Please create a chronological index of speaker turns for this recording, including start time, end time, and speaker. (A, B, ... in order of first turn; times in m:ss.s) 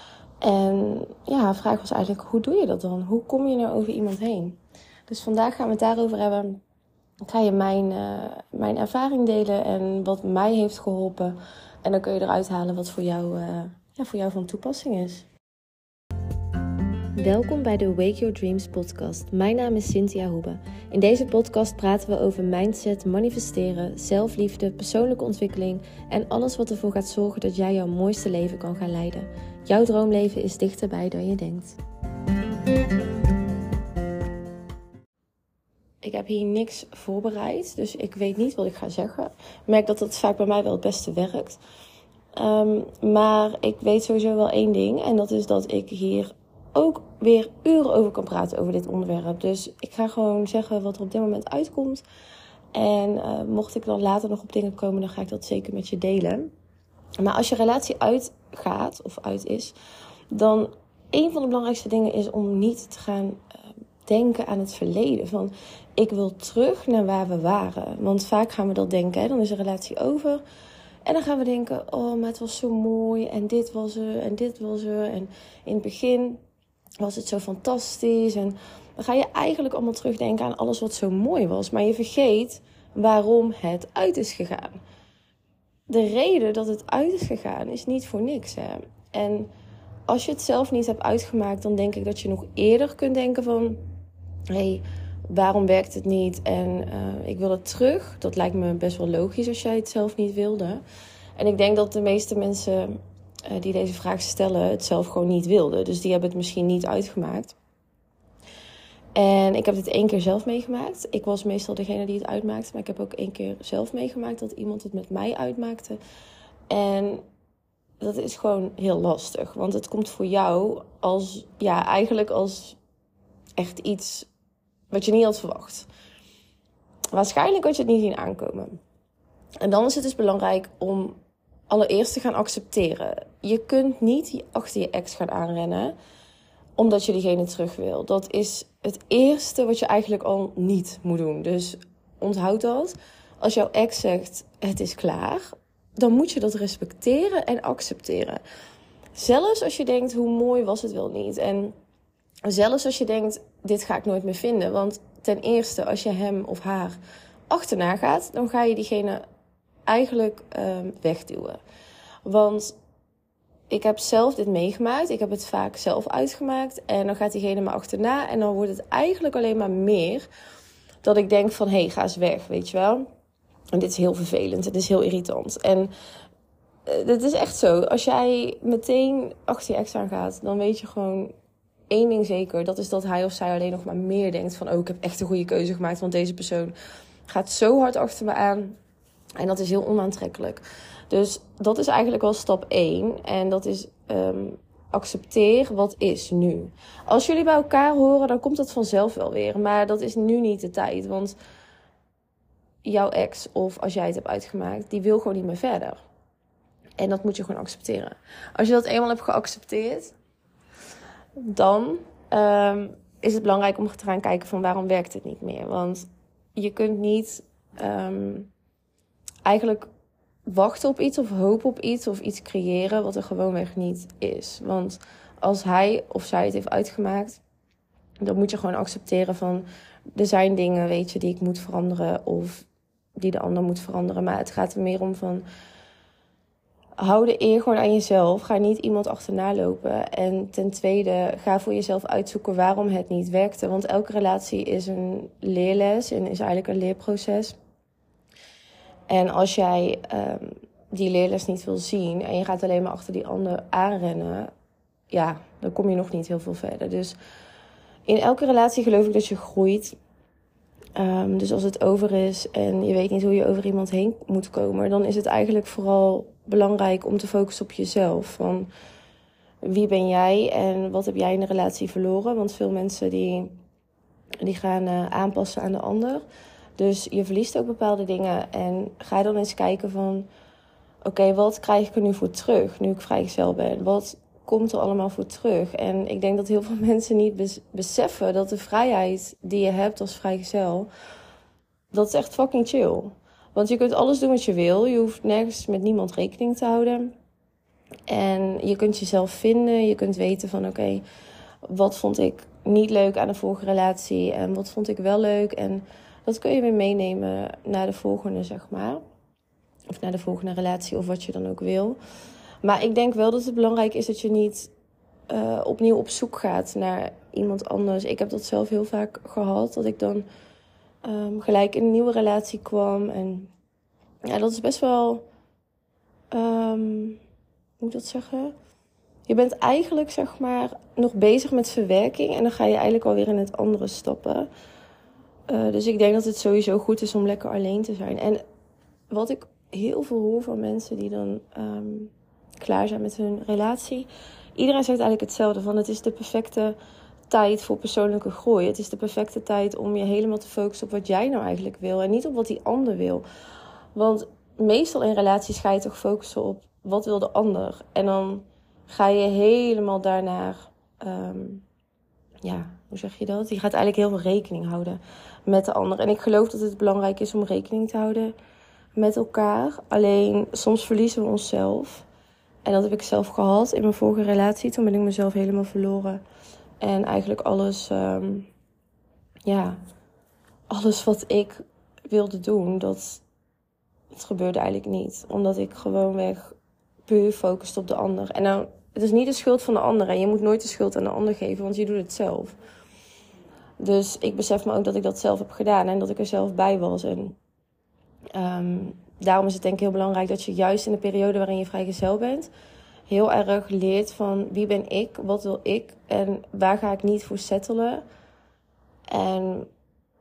0:00.4-0:06.6 A
0:07.2-0:15.3 A
0:17.2-0:31.8 A
0:36.0-0:41.6 A
0:42.4-0:52.0 A
0:52.7-0:56.5 A
0:57.2-0:59.8 A
1:00.3-1:03.4 A
1:04.0-1:10.4 A
1:11.0-1:16.4 A
1:17.0-1:24.8 A
1:25.9-1:29.5 A
1:30.1-1:33.8 A
1:34.5-1:40.8 A
1:41.4-1:47.6 A
1:49.1-1:56.0 A
1:56.7-1:57.2 A
1:58.0-2:02.8 A
2:03.6-2:04.3 A
2:04.9-2:05.9 A
2:07.1-2:08.8 A
2:09.6-2:15.9 A
2:16.8-2:28.4 A
2:29.1-2:31.7 A
2:32.4-2:37.0 A
2:37.5-2:39.2 A
2:39.9-2:41.6 A
2:42.2-2:42.8 A
2:43.7-2:50.3 A
2:51.0-2:53.0 A
2:53.7-2:55.9 A
2:56.8-3:01.3 A
3:01.9-3:06.7 A
3:07.3-3:08.8 A
3:09.4-3:21.4 A
3:22.8-3:26.0 A
3:27.0-3:30.2 A
3:31.4-3:38.5 A
3:39.4-3:39.9 A
3:40.4-3:47.4 A
3:48.2-3:55.4 A
3:57.0-4:07.6 A
4:09.1-4:14.5 A
4:15.1-4:17.2 A
4:18.0-4:20.0 A
4:21.0-4:28.7 A
4:29.6-4:33.6 A
4:34.4-4:36.2 A
4:36.8-4:40.3 A
4:41.0-4:50.9 A
4:51.9-4:57.1 A
4:58.1-5:01.0 A
5:01.6-5:09.0 A
5:09.9-5:12.0 A
5:12.6-5:14.7 A
5:15.3-5:20.2 A
5:21.0-5:23.5 A
5:24.2-5:25.2 A
5:26.3-5:27.2 A
5:27.8-5:28.5 A
5:29.2-5:34.5 A
5:35.5-5:38.4 A
5:39.1-5:46.8 A
5:47.3-5:53.2 A
5:53.9-6:01.6 A
6:02.4-6:08.3 A
6:09.0-6:12.0 A
6:12.6-6:16.2 A
6:16.8-6:18.5 A
6:19.4-6:19.8 A
6:20.7-6:23.2 A
6:24.1-6:26.6 A
6:27.1-6:32.6 A
6:33.8-6:37.4 A
6:38.3-6:42.5 A
6:43.1-6:48.0 A
6:49.1-6:49.7 A